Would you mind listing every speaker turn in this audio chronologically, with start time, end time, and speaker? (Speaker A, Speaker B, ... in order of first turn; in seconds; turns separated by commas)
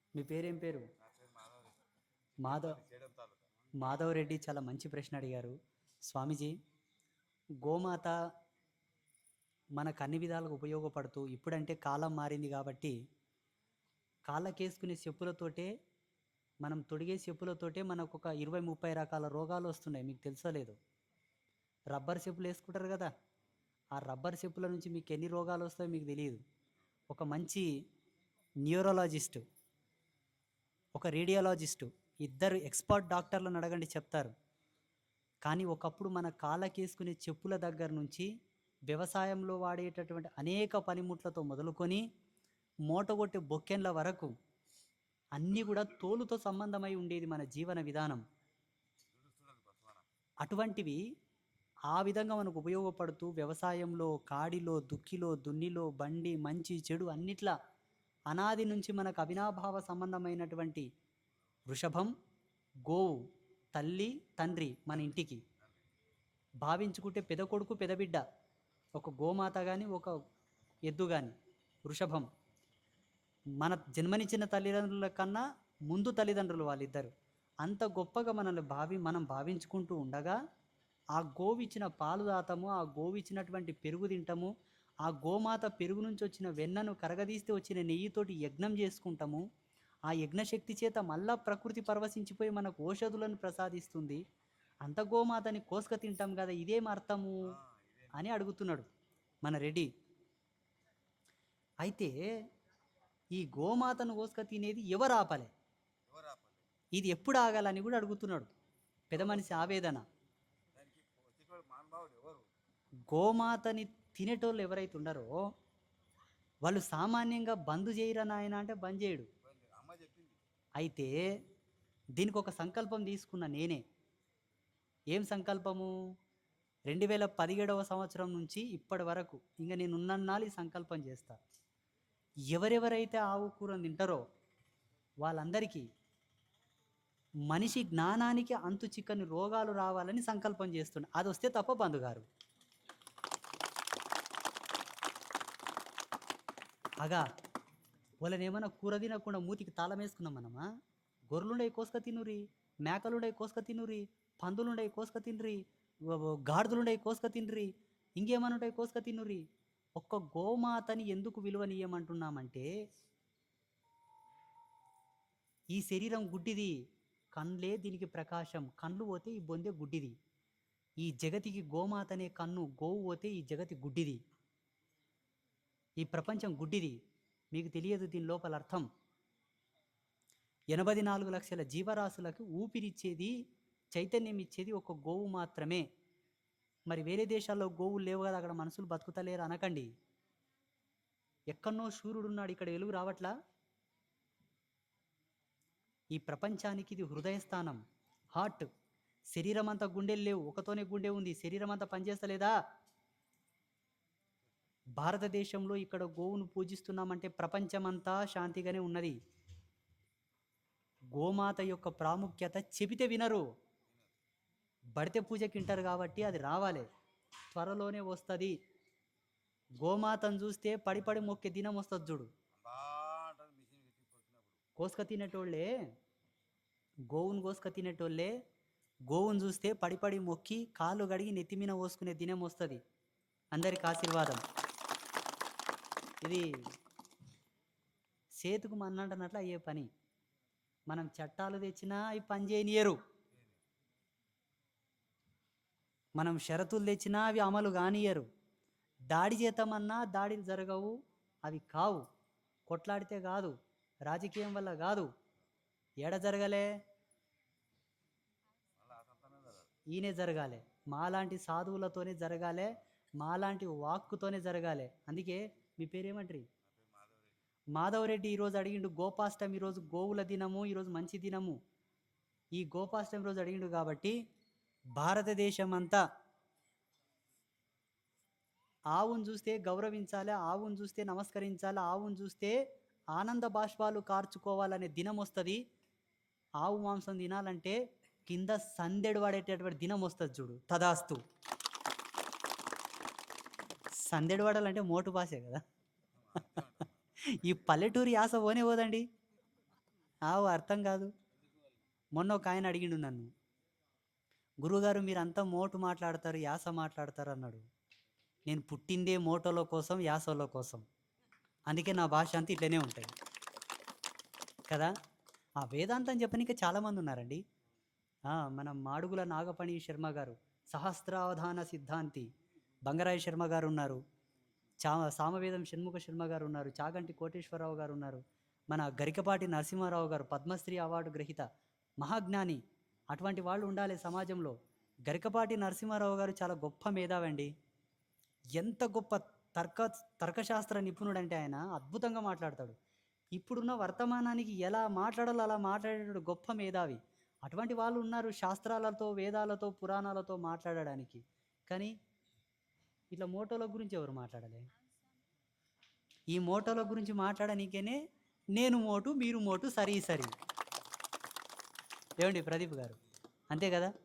Speaker A: 0.2-0.9, Speaker B: 1.0-1.8, Speaker B: 2.4-3.5, Speaker A: 2.4-2.8, Speaker A: 3.8-5.5, Speaker A: 6.1-6.5, Speaker A: 7.6-8.1, Speaker A: 9.8-12.9, Speaker A: 14.3-15.7, Speaker A: 16.6-20.8, Speaker A: 21.9-23.1, Speaker A: 24.0-26.4, Speaker A: 27.1-27.7, Speaker A: 28.7-29.4, Speaker A: 31.0-34.3, Speaker A: 35.5-38.3, Speaker A: 38.9-42.0, Speaker A: 42.9-44.3, Speaker A: 45.4-48.2, Speaker B: 49.1-50.0, Speaker A: 50.4-51.0, Speaker A: 51.9-57.5, Speaker A: 58.3-60.9, Speaker A: 61.7-62.1, Speaker A: 62.9-63.2, Speaker A: 63.8-65.4, Speaker A: 66.6-68.2, Speaker A: 69.0-70.1, Speaker A: 70.9-71.3, Speaker A: 71.9-72.3, Speaker A: 73.6-77.1, Speaker A: 77.6-80.4, Speaker A: 81.2-84.5, Speaker A: 85.0-89.4, Speaker A: 90.1-94.2, Speaker A: 94.8-97.4, Speaker B: 97.5-98.2, Speaker A: 98.2-98.9, Speaker A: 99.4-99.9, Speaker A: 101.8-102.1, Speaker A: 103.3-105.5, Speaker B: 106.1-106.6, Speaker A: 107.0-108.5, Speaker A: 109.1-110.0, Speaker B: 109.2-109.7, Speaker B: 110.8-112.5, Speaker A: 113.1-115.3, Speaker A: 116.7-119.3, Speaker B: 119.4-120.4, Speaker A: 120.8-121.2, Speaker A: 122.2-123.8, Speaker A: 125.1-125.9, Speaker A: 126.9-131.4, Speaker A: 132.5-134.2, Speaker A: 135.2-135.9, Speaker A: 137.5-142.3, Speaker A: 148.2-150.6, Speaker A: 151.3-159.4, Speaker A: 160.0-162.7, Speaker A: 165.7-166.8, Speaker A: 167.4-170.1, Speaker A: 171.0-174.2, Speaker A: 176.0-177.0, Speaker A: 177.5-178.9, Speaker A: 180.7-183.3, Speaker A: 183.9-185.8, Speaker A: 186.9-189.9, Speaker A: 191.5-193.3, Speaker A: 196.1-197.8, Speaker A: 198.4-198.7, Speaker A: 199.3-202.5, Speaker A: 205.0-209.2, Speaker A: 211.2-213.4, Speaker A: 215.0-216.9, Speaker A: 217.5-218.6, Speaker A: 219.8-222.3, Speaker B: 222.6-224.6, Speaker A: 224.8-225.7, Speaker A: 227.1-228.3, Speaker A: 229.1-232.8, Speaker A: 233.5-234.4, Speaker A: 238.4-239.9, Speaker A: 240.9-243.0, Speaker A: 246.2-248.3, Speaker A: 249.1-250.9, Speaker A: 251.5-252.0, Speaker A: 252.7-253.5, Speaker A: 254.1-255.1, Speaker A: 256.0-256.7, Speaker B: 258.8-259.7, Speaker A: 259.9-266.5, Speaker B: 266.6-267.4, Speaker A: 267.8-271.6, Speaker A: 272.6-274.1, Speaker A: 275.0-276.0, Speaker A: 278.9-282.6, Speaker A: 283.2-285.6, Speaker A: 286.6-291.2, Speaker A: 294.1-295.6, Speaker B: 296.1-297.6, Speaker A: 297.4-299.1, Speaker A: 300.3-301.1, Speaker A: 302.2-303.3, Speaker A: 304.6-307.6, Speaker A: 308.5-310.9, Speaker A: 311.7-313.1, Speaker A: 315.6-317.4, Speaker A: 318.3-322.3, Speaker A: 322.9-324.0, Speaker A: 324.8-331.5, Speaker A: 332.0-334.6, Speaker A: 335.1-337.5, Speaker A: 338.6-342.8, Speaker A: 343.4-351.9, Speaker A: 353.1-354.6, Speaker A: 356.3-358.0, Speaker A: 358.6-360.3, Speaker A: 362.2-363.0, Speaker A: 363.5-363.9